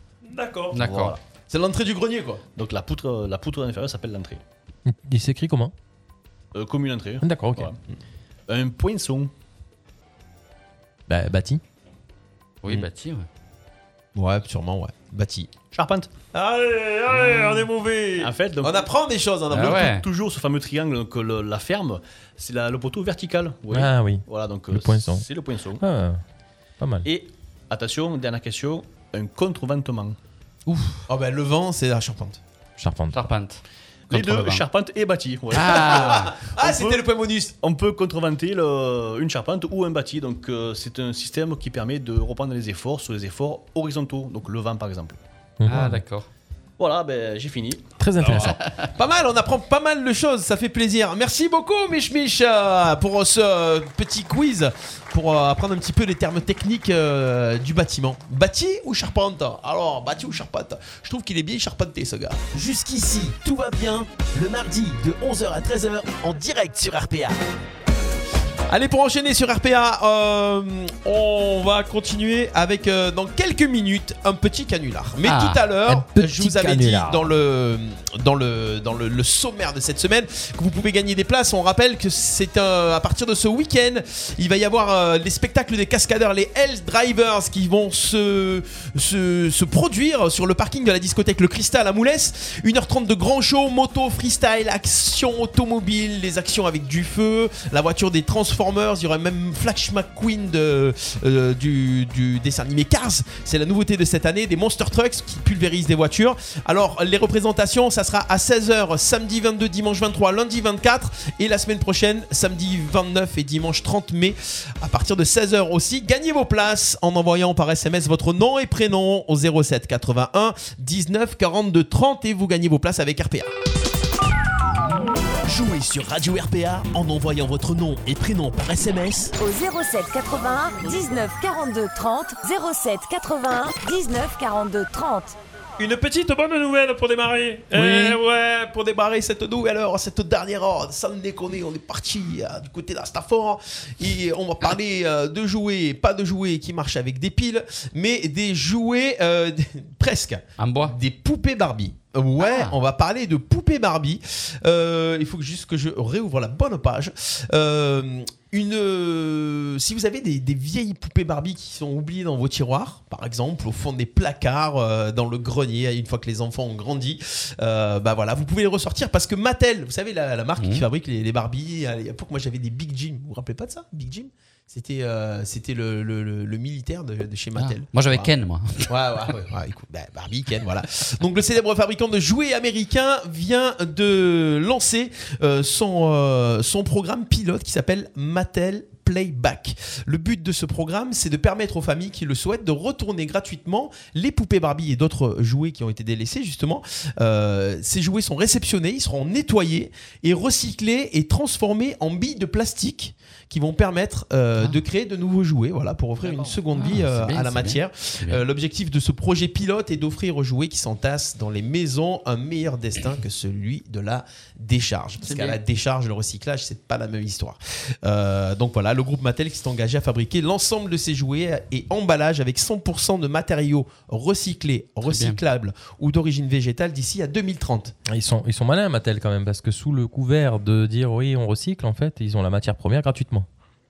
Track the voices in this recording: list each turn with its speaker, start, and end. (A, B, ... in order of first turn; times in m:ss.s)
0:00.3-0:00.8 A
0:00.7-0:01.2 B
0:00.8-0:01.2 C
0:01.5-0:02.4 D
0:02.6-0:04.4 C
0:04.8-0:05.7 E
0:06.5-0:07.8 C
0:07.2-0:07.7 E
0:08.5-0:09.3 C
0:11.1-0:11.6 E
0:12.6-0:13.3 B
0:14.1-0:15.5 D
0:15.7-0:16.1 C
0:16.4-0:18.3 A
0:17.1-0:17.6 C
0:18.2-0:18.9 C
0:18.6-0:19.9 D
0:19.5-0:20.0 B
0:19.5-0:25.8 C
0:23.7-0:25.2 E
0:25.8-0:26.2 E
0:26.8-0:27.1 E
0:27.0-0:30.2 C
0:31.1-0:32.4 D
0:32.8-0:33.2 E
0:33.1-0:34.6 B
0:34.1-0:37.0 C
0:35.5-0:36.3 B
0:35.6-0:37.5 D
0:37.6-0:45.2 C
0:45.6-0:46.0 E
0:45.6-0:46.3 B
0:46.8-0:48.4 C
0:48.0-0:48.6 E
0:48.3-0:48.7 B
0:49.0-1:02.6 D
1:02.6-1:07.3 F
1:08.7-2:03.5 D
1:15.2-1:15.6 B
1:15.8-1:17.2 E
2:05.4-2:09.3 D
2:09.4-2:15.4 G
2:15.8-2:18.8 A
2:17.7-2:18.2 B
2:18.7-2:58.3 D
2:30.6-2:30.9 B
2:32.4-2:32.8 B
2:50.6-2:50.8 B
2:57.6-2:58.9 B
2:58.9-3:47.9 D
3:26.3-3:28.4 B
3:45.0-3:45.4 B
3:48.1-3:53.5 E